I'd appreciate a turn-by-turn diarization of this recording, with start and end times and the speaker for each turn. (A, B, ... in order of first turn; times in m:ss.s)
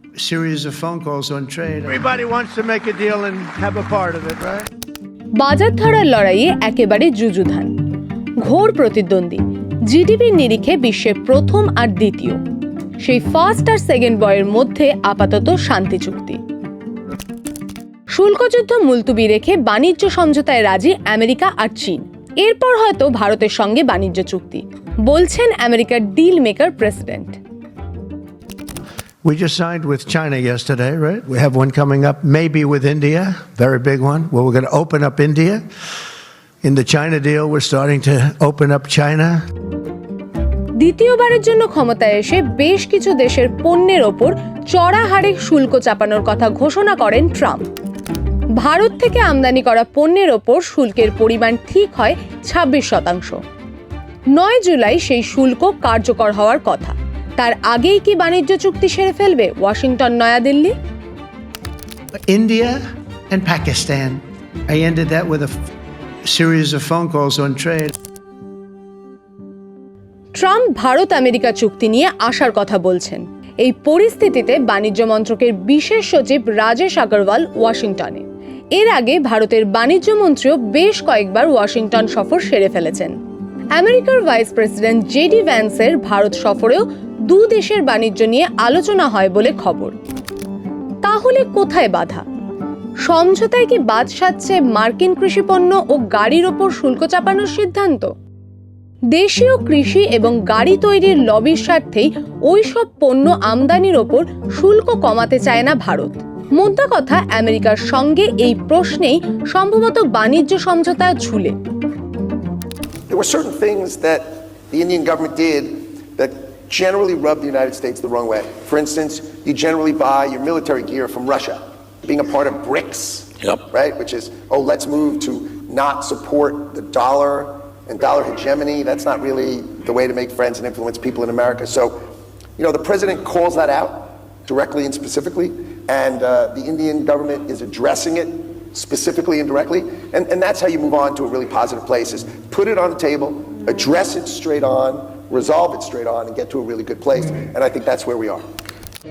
0:00.2-0:04.7 A
0:05.4-0:07.7 B
0:08.4-0:12.4 B
0:13.0-0:16.4 B
0:18.1-0:27.4 B
0:29.2-0:35.6 A
0:36.6-0:39.4 A
0:40.8-0:47.7 B
0:48.6-0:53.4 B
0:54.3-1:00.7 B
1:02.3-1:05.6 A
1:06.2-1:07.9 A
1:10.4-1:18.2 B
1:18.8-1:23.1 B
1:23.8-1:30.0 B
1:31.0-1:32.2 B
1:33.0-1:38.1 B
1:39.1-1:51.6 B
1:53.1-2:12.0 C
2:12.6-2:28.5 C